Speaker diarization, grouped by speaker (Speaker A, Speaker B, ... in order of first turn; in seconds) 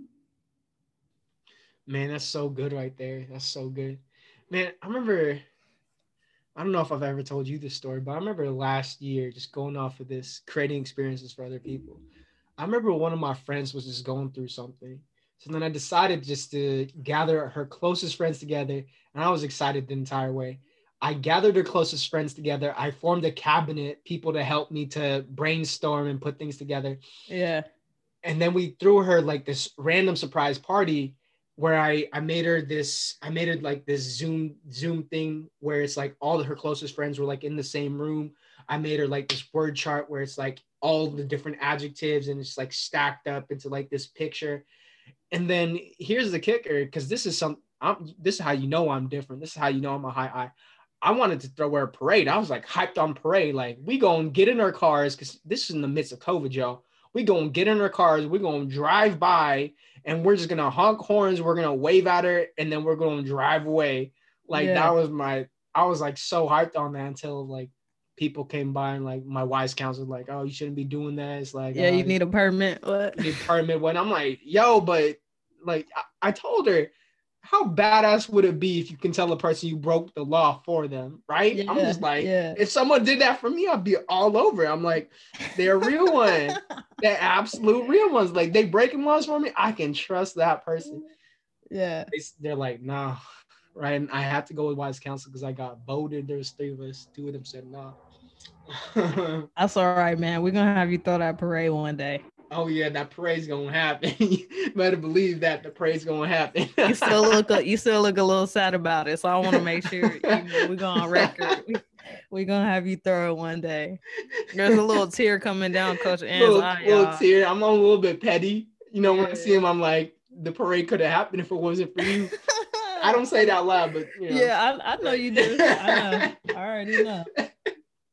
Speaker A: 1.9-5.4, 6.6-12.0, 12.6-27.0, 28.2-44.6, 45.3-72.2, 73.2-91.0, 92.1-93.2, 93.8-98.0, 98.7-99.5, 102.5-107.5, 109.5-111.6, 116.3-122.3, 123.0-124.5, 125.4-126.4, 127.0-127.5
Speaker B: 27.3-27.7, 64.5-65.0, 71.7-73.5, 81.5-82.6, 85.8-86.6, 91.7-92.1, 99.6-102.2, 106.8-114.0, 114.5-117.2, 119.0-119.6, 122.3-123.5, 124.3-127.3